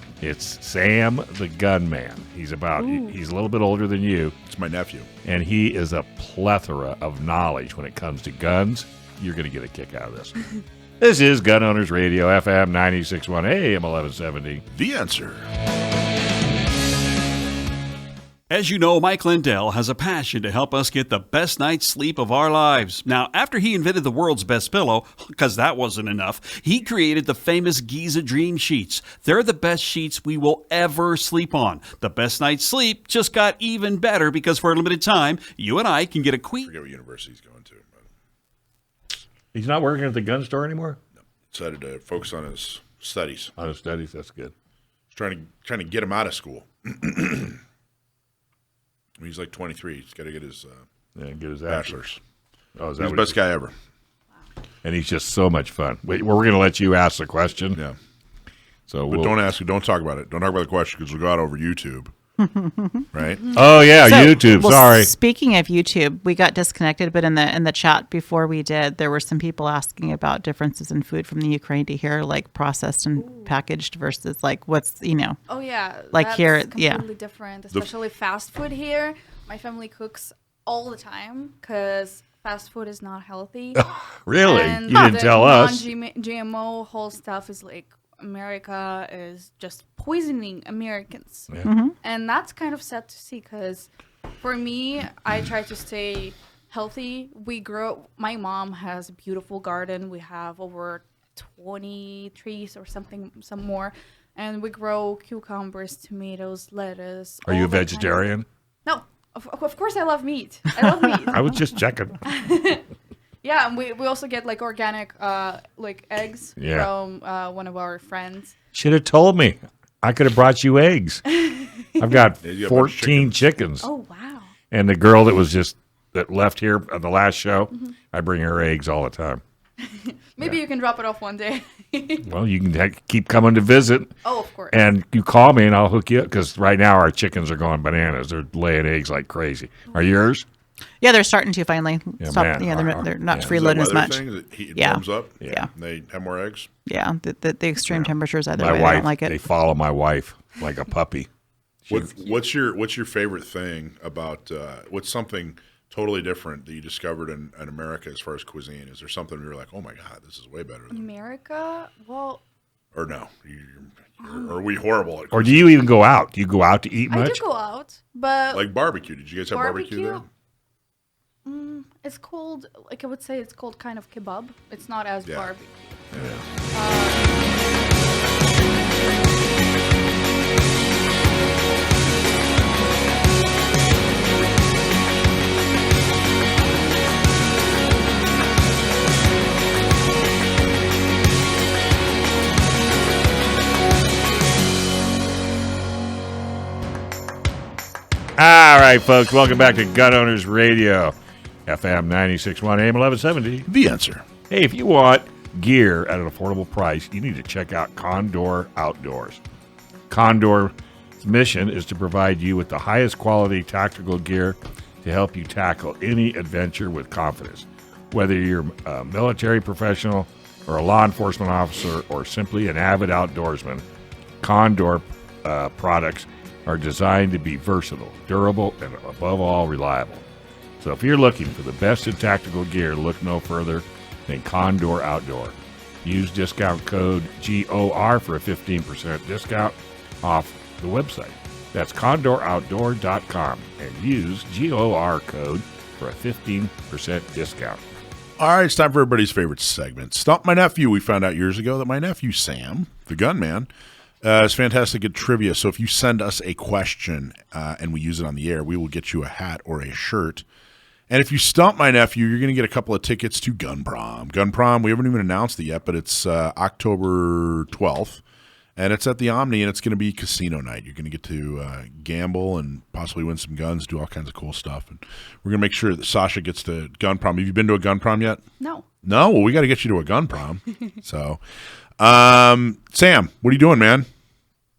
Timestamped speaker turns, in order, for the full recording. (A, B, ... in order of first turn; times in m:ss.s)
0:00.2-0:04.3 A
0:02.8-0:03.1 B
0:04.4-0:05.1 C
0:05.3-0:10.4 A
0:11.0-0:14.6 A
0:14.7-0:15.4 C
0:18.5-0:36.7 D
0:36.6-0:38.0 C
0:39.5-0:41.0 A
0:41.5-0:43.5 C
0:43.6-0:44.5 A
0:45.1-0:47.6 C
0:49.2-0:50.8 C
0:51.2-0:51.9 A
0:51.7-0:52.2 C
0:52.8-0:53.4 A
0:53.0-0:53.7 C
0:54.8-0:57.8 A
0:58.9-0:59.3 A
0:59.1-1:02.1 C
1:02.6-1:03.0 E
1:03.1-1:03.6 C
1:03.5-1:05.1 A
1:04.0-1:15.4 E
1:13.2-1:13.5 B
1:15.5-1:31.5 B
1:16.1-1:17.0 E
1:23.8-1:25.9 A
1:31.6-1:32.0 E
1:32.0-1:33.9 B
1:34.4-1:48.3 B
1:47.5-1:48.4 A
1:48.8-1:51.6 B
1:51.3-1:52.2 A
1:52.2-1:52.8 B
1:53.4-1:58.6 B
1:56.6-1:56.9 A
1:58.8-2:01.2 A
2:01.4-2:02.2 B
2:02.0-2:03.8 A
2:02.4-2:03.4 C
2:03.8-2:04.5 B
2:04.7-2:09.4 A
2:07.7-2:08.0 B
2:09.8-2:12.3 B
2:12.2-2:14.1 A
2:14.2-2:14.9 B
2:14.7-2:20.5 A
2:21.0-2:24.2 E
2:22.2-2:22.8 A
2:23.4-2:26.7 C
2:24.8-2:25.7 E
2:26.9-2:29.4 E
2:27.9-2:31.3 A
2:28.6-2:28.9 C
2:31.9-2:41.1 C
2:40.9-2:42.4 B
2:42.9-2:45.7 C
2:44.2-2:44.5 B
2:45.3-2:47.4 A
2:47.1-2:48.7 B
2:48.5-2:50.3 C
2:49.5-2:50.2 B
2:51.4-2:56.0 B
2:56.7-2:57.5 B
3:18.4-3:23.7 A
3:23.7-3:24.2 C
3:24.5-3:29.4 A
3:30.1-3:43.8 A
3:44.4-3:50.2 A
3:50.8-4:07.8 A
4:08.4-4:13.7 C
4:14.2-4:20.4 C
4:21.1-4:28.2 C
4:28.8-4:38.4 C
4:38.6-4:38.8 B
4:39.0-4:41.4 C
4:42.0-4:44.1 C